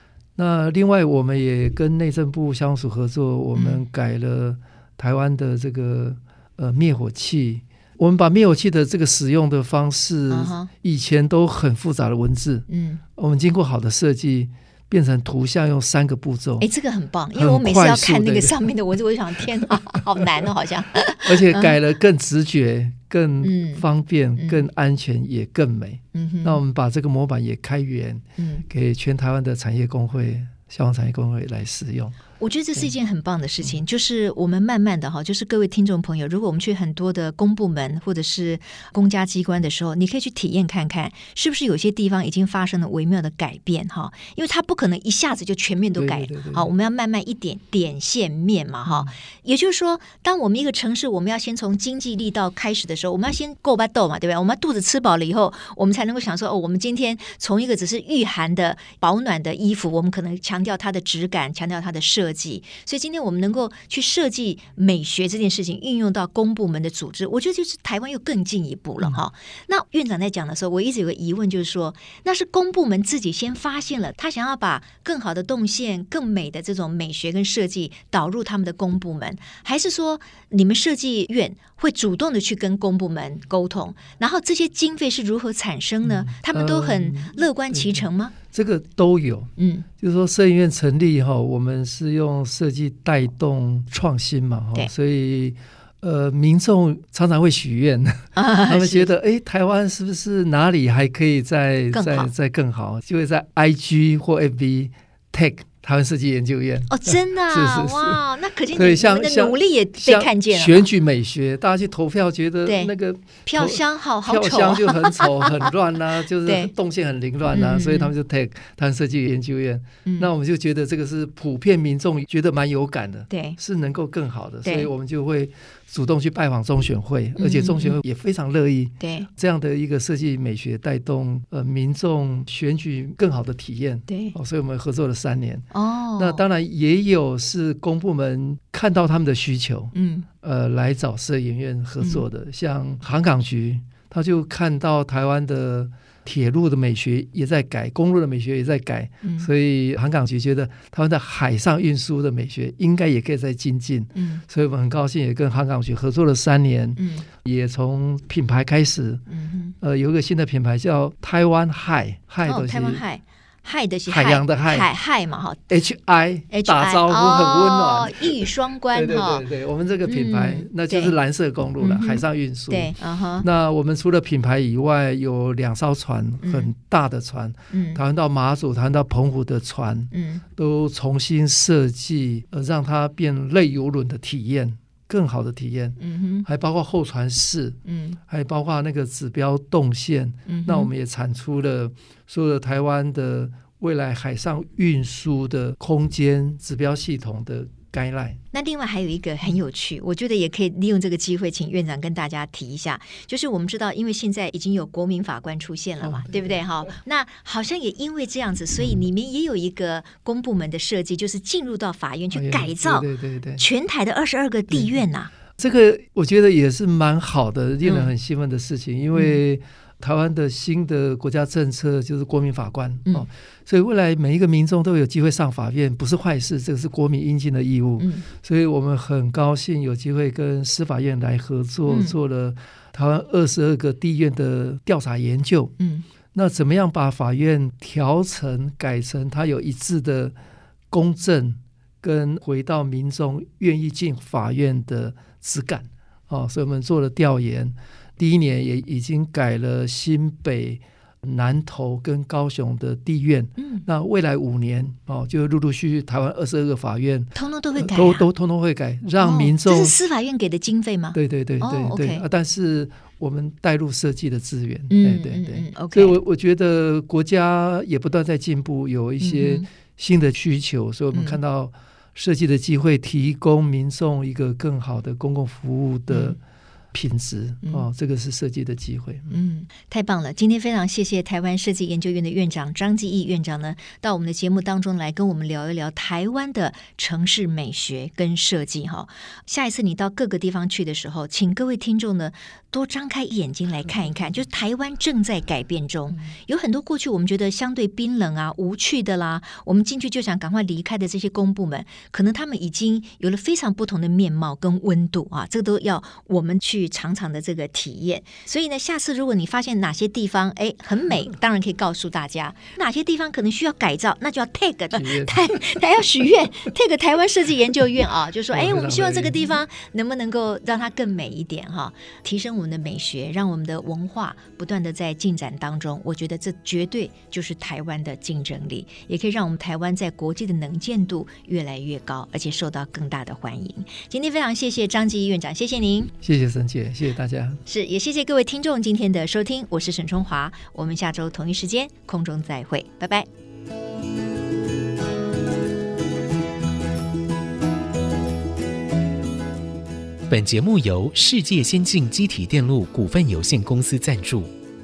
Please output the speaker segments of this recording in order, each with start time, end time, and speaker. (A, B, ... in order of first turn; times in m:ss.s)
0:00.4-0:16.7 A
0:03.6-0:03.8 B
0:10.3-0:10.7 B
0:12.7-0:13.0 B
0:16.6-0:21.8 B
0:17.4-0:18.7 A
0:19.6-0:20.5 A
0:21.1-0:32.2 A
0:23.4-0:23.8 B
0:24.4-0:24.6 B
0:26.1-0:26.6 B
0:28.4-0:28.6 B
0:32.4-1:28.3 B
0:46.0-0:46.7 A
0:48.8-0:49.1 A
1:26.0-1:48.2 A
1:29.6-1:29.9 B
1:38.4-1:39.1 B
1:41.9-1:42.3 B
1:46.9-1:50.9 B
1:48.7-2:39.2 A
1:52.7-1:52.9 B
1:53.5-1:55.7 B
1:56.4-1:56.7 B
1:57.5-1:58.1 B
2:03.3-2:03.6 B
2:04.6-2:04.9 B
2:07.4-2:08.0 B
2:09.0-2:09.3 B
2:14.1-2:14.4 B
2:15.7-2:16.4 B
2:19.9-2:20.3 B
2:29.2-2:29.5 B
2:34.1-2:34.4 B
2:37.0-2:37.3 B
2:39.3-2:39.7 B
2:39.8-2:43.0 A
2:42.4-2:45.6 B
2:44.1-2:44.9 A
2:45.7-3:18.4 A
2:46.5-2:49.4 B
2:50.0-2:51.2 B
2:51.8-2:53.5 B
2:56.4-2:56.7 B
2:57.7-2:58.0 B
3:00.1-3:00.4 B
3:06.0-3:06.5 B
3:07.9-3:08.2 B
3:10.5-3:10.9 B
3:18.5-3:35.3 B
3:26.0-3:26.6 A
3:32.3-3:33.6 A
3:35.6-3:55.8 A
3:37.9-3:38.1 B
3:48.0-3:48.3 B
3:51.9-3:52.1 B
3:55.8-3:56.0 B
3:56.3-4:00.4 A
4:00.9-4:20.0 A
4:13.6-4:13.8 B
4:17.4-4:18.3 B
4:19.2-4:22.2 B
4:21.1-4:36.4 A
4:24.9-4:26.2 B
4:29.2-4:29.7 B
4:31.1-4:31.4 B
4:36.1-4:36.4 B
4:36.9-4:39.4 A
4:39.3-5:36.1 B
5:14.9-5:15.4 A
5:18.5-5:19.5 A
5:36.2-5:37.6 A
5:37.6-5:43.3 B
5:50.3-5:54.5 C